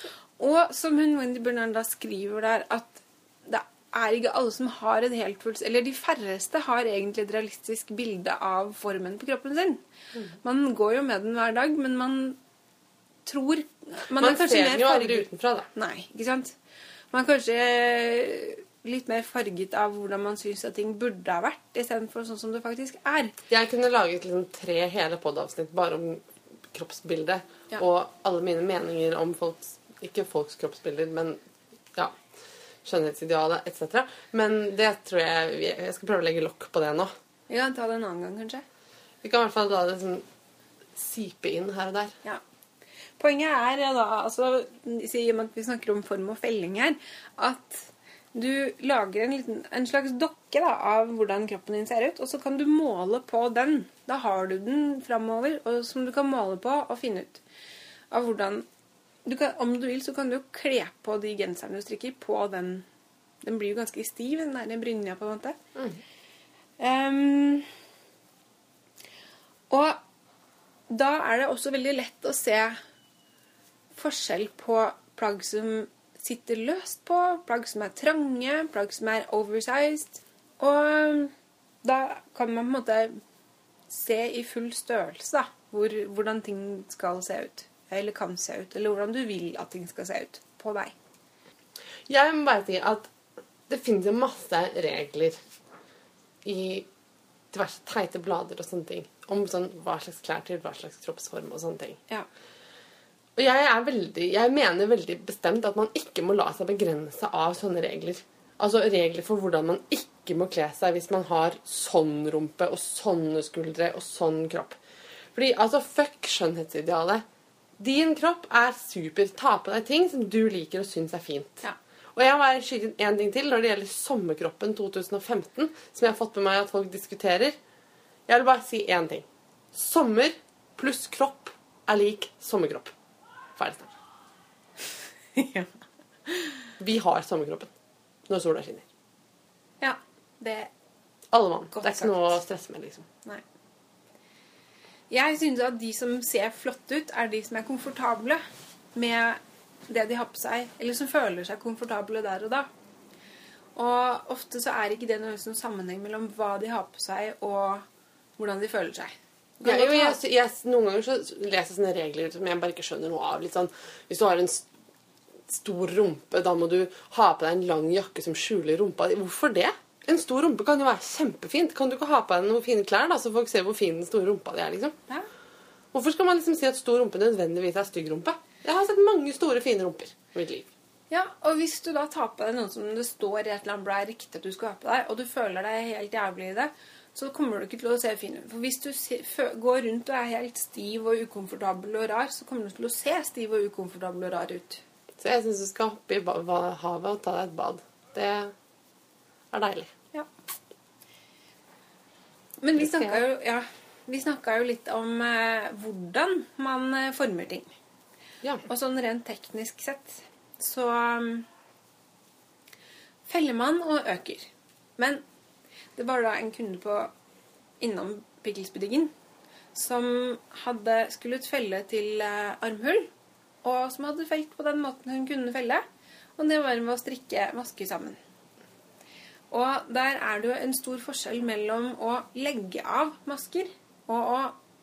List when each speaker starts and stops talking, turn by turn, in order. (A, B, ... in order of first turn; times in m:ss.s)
0:00.4-0:09.8 A
0:10.4-0:12.4 A
0:13.2-0:16.6 A
0:14.2-0:15.7 B
0:17.1-0:23.4 A
0:23.5-0:31.4 B
0:32.8-0:37.1 B
0:37.5-0:38.6 A
0:39.2-0:40.2 B
0:41.0-0:42.1 B
0:43.2-0:57.4 A
0:58.1-0:58.6 A
0:59.2-1:02.8 A
1:03.4-1:05.6 A
1:06.8-1:07.7 A
1:09.7-1:10.0 A
1:10.9-1:12.8 A
1:13.9-1:23.2 A
1:23.9-1:30.9 A
1:32.1-1:33.1 B
1:33.7-1:35.4 B
1:36.4-1:36.9 B
1:37.5-1:42.0 B
1:43.4-1:54.8 B
1:55.3-1:57.2 B
1:57.8-2:07.6 B
2:08.3-2:12.9 B
2:13.6-2:13.9 B
2:15.3-2:15.7 A
2:16.3-2:16.7 A
2:16.8-2:17.7 B
2:18.3-2:18.9 B
2:19.8-2:20.7 A
2:21.3-2:23.1 B
2:21.7-2:22.4 A
2:25.1-2:28.4 A
2:29.0-2:32.7 A
2:33.7-2:37.8 A
2:38.4-2:40.2 A
2:39.6-2:44.6 B
2:45.5-2:55.0 B
2:55.9-3:00.7 B
3:01.1-3:14.8 A
3:15.2-3:18.5 B
3:19.5-3:19.9 B
3:22.6-3:27.7 A
3:22.8-3:23.2 B
3:28.6-3:31.5 A
3:33.3-3:35.2 A
3:36.0-3:37.1 A
3:37.8-3:39.1 A
3:39.7-3:43.1 A
3:43.6-3:45.8 A
3:46.4-3:48.2 A
3:49.5-3:54.6 A